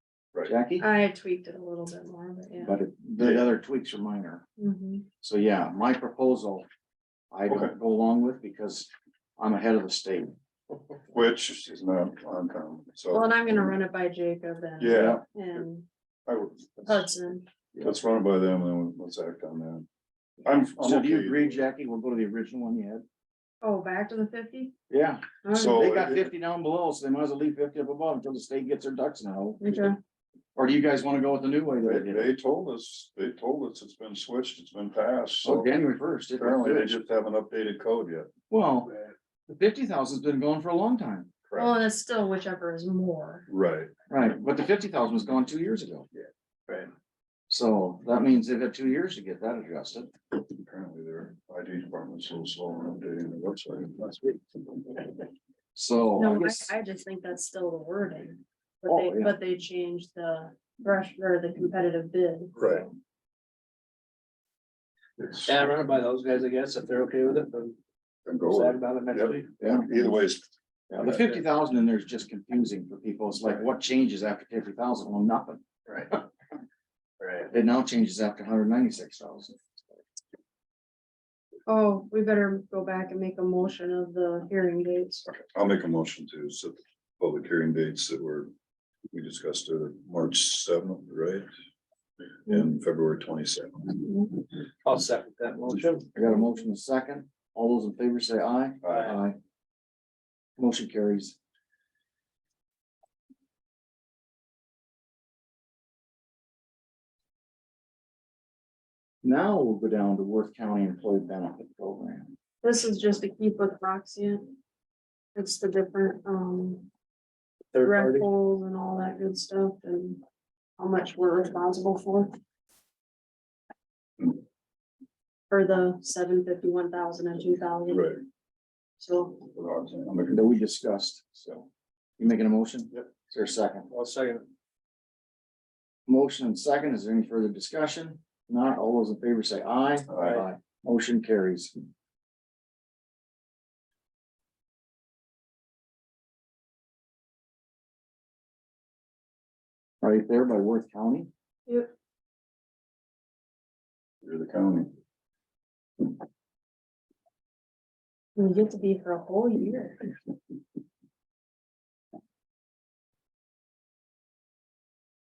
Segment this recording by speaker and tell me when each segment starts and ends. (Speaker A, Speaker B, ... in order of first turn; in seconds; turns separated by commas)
Speaker A: 0.5-0.9, Speaker B: 0.8-2.7, Speaker A: 2.6-4.5, Speaker B: 4.6-5.1, Speaker A: 5.2-6.7, Speaker A: 7.3-10.3, Speaker C: 7.5-7.7, Speaker C: 11.1-13.7, Speaker B: 13.1-15.9, Speaker C: 14.8-15.6, Speaker A: 14.9-15.2, Speaker C: 16.3-17.0, Speaker B: 16.9-17.5, Speaker C: 17.8-19.9, Speaker C: 20.4-21.6, Speaker A: 20.5-23.0, Speaker B: 23.6-24.7, Speaker A: 24.9-29.9, Speaker B: 25.4-25.8, Speaker C: 25.5-26.3, Speaker B: 29.6-30.0, Speaker A: 30.6-32.3, Speaker C: 31.8-35.8, Speaker A: 35.4-37.0, Speaker C: 36.4-38.3, Speaker A: 38.5-38.9, Speaker A: 39.5-41.3, Speaker C: 41.5-41.7, Speaker B: 41.6-43.5, Speaker C: 43.5-43.9, Speaker A: 44.1-46.1, Speaker A: 47.5-50.1, Speaker C: 50.6-55.0, Speaker A: 55.8-56.7, Speaker B: 56.2-62.8, Speaker A: 58.9-59.4, Speaker C: 62.6-62.9, Speaker D: 65.3-67.8, Speaker C: 68.3-70.5, Speaker D: 68.5-69.5, Speaker A: 69.6-69.9, Speaker A: 70.9-75.6, Speaker D: 77.2-77.5, Speaker A: 77.5-79.8, Speaker B: 81.7-85.2, Speaker C: 85.3-88.5, Speaker C: 89.1-91.5, Speaker C: 92.5-94.2, Speaker D: 94.8-96.1, Speaker A: 96.2-99.4, Speaker C: 98.8-99.2, Speaker A: 100.6-101.4, Speaker A: 109.2-112.3, Speaker B: 112.6-114.6, Speaker B: 115.3-116.9, Speaker D: 117.7-118.3, Speaker B: 117.8-120.2, Speaker B: 120.8-122.3, Speaker B: 125.5-128.2, Speaker C: 127.9-128.2, Speaker B: 129.0-129.5, Speaker C: 129.5-130.6, Speaker A: 130.3-131.7, Speaker A: 132.2-133.9, Speaker D: 133.9-134.5, Speaker A: 136.1-141.7, Speaker C: 140.1-140.4, Speaker A: 150.0-151.3, Speaker C: 154.2-154.9, Speaker B: 158.4-160.1